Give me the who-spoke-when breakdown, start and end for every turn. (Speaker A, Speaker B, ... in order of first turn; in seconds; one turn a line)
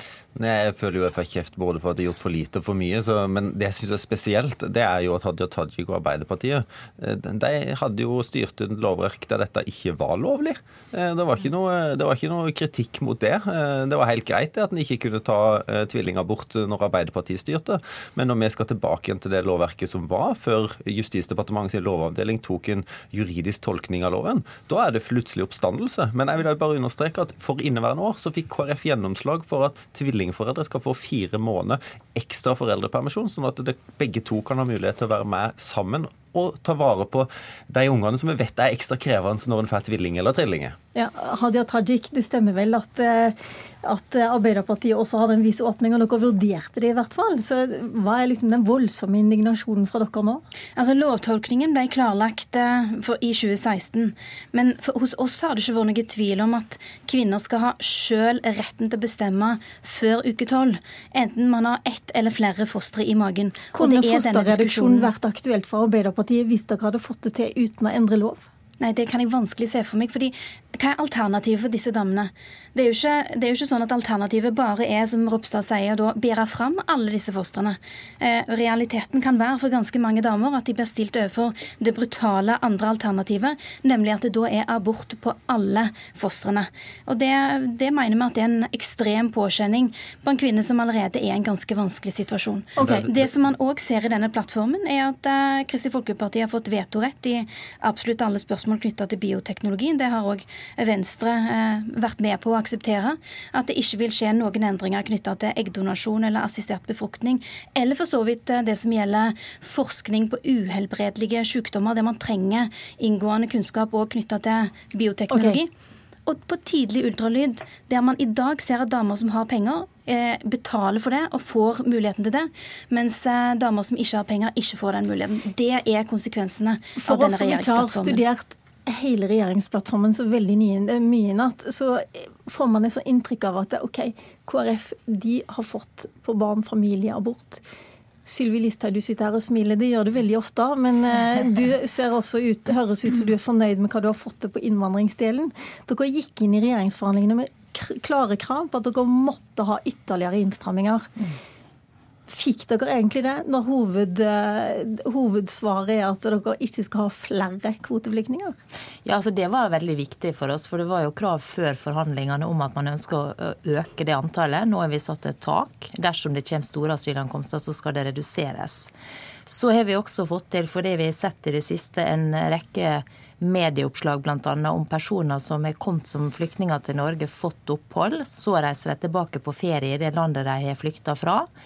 Speaker A: 0.3-40.7
Speaker B: 40.9-50.4
Speaker C: 50.8-65.1
Speaker B: 63.7-68.4
Speaker C: 68.8-115.7
Speaker B: 92.8-93.0
Speaker A: 92.8-93.1
Speaker B: 115.3-115.6
Speaker C: 116.3-128.2
Speaker B: 127.0-137.6
Speaker B: 138.2-151.1
Speaker B: 152.3-158.5
Speaker D: 159.0-168.9
Speaker D: 169.5-181.5